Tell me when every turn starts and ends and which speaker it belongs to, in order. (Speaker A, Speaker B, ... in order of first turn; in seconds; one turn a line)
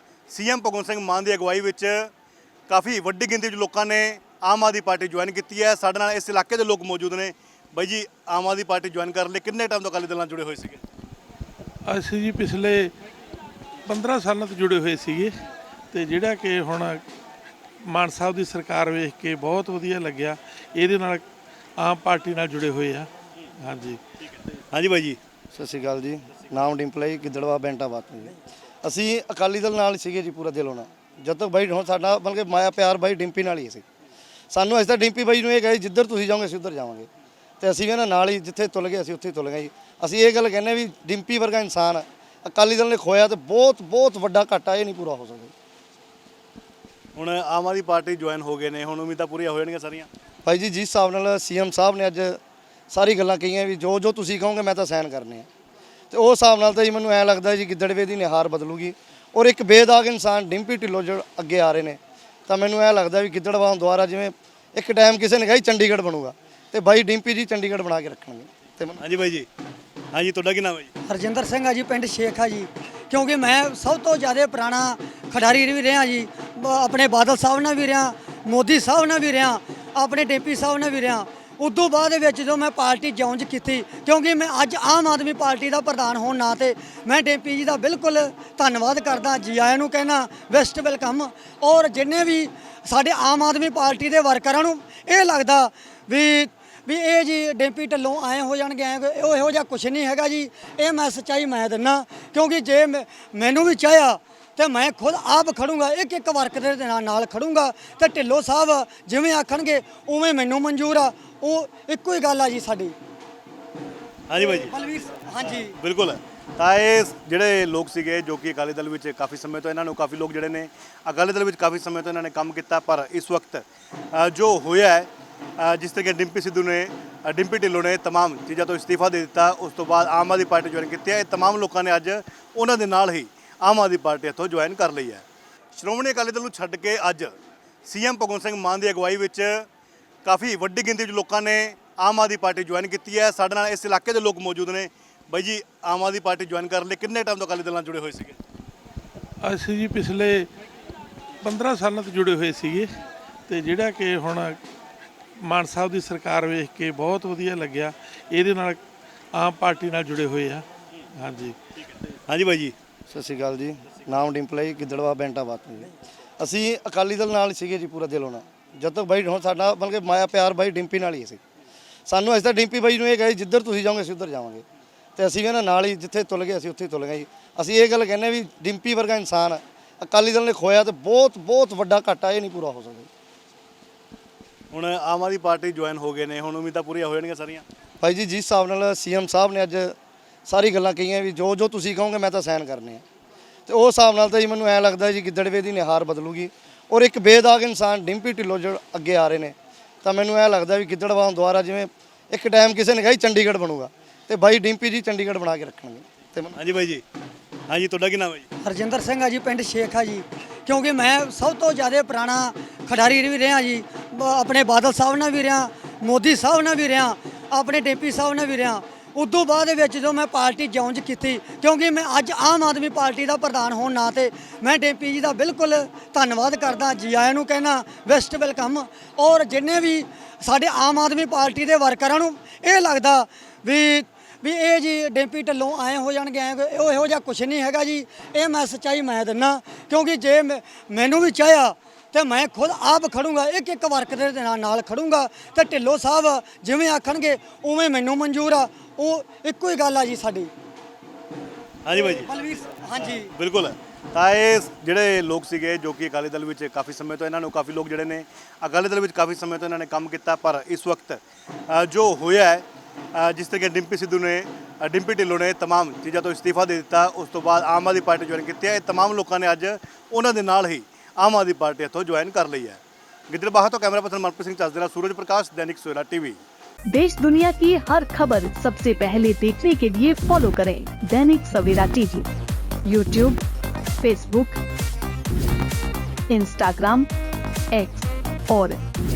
Speaker A: 0.3-2.1
Speaker A: 2.7-10.8
Speaker B: 11.9-12.9
Speaker B: 13.9-15.3
Speaker B: 15.9-17.0
Speaker B: 17.9-21.2
Speaker B: 21.8-23.1
Speaker B: 23.6-24.0
Speaker A: 24.7-25.2
Speaker C: 25.5-33.8
Speaker C: 34.5-37.1
Speaker C: 37.6-45.5
Speaker A: 47.1-50.1
Speaker C: 50.5-52.4
Speaker C: 52.9-55.5
Speaker C: 56.1-69.0
Speaker A: 69.0-69.5
Speaker A: 70.1-70.9
Speaker D: 71.0-113.0
Speaker A: 114.3-114.8
Speaker D: 114.4-115.8
Speaker A: 115.5-139.7
Speaker A: 140.2-148.4
Speaker B: 149.4-150.5
Speaker B: 151.4-152.9
Speaker B: 153.5-154.6
Speaker B: 155.4-158.8
Speaker B: 159.3-160.7
Speaker B: 161.2-161.6
Speaker A: 162.3-162.8
Speaker C: 163.1-171.4
Speaker C: 172.1-174.6
Speaker C: 175.2-183.1
Speaker A: 184.7-187.7
Speaker C: 188.0-189.9
Speaker C: 190.5-193.0
Speaker C: 193.7-206.6
Speaker A: 206.5-207.0
Speaker A: 207.7-208.5
Speaker D: 208.6-250.5
Speaker A: 251.8-252.3
Speaker D: 251.9-253.3
Speaker A: 253.2-276.4
Speaker E: 276.9-282.3
Speaker E: 282.9-283.4
Speaker E: 284.0-284.6
Speaker E: 286.3-287.1
Speaker E: 287.7-288.8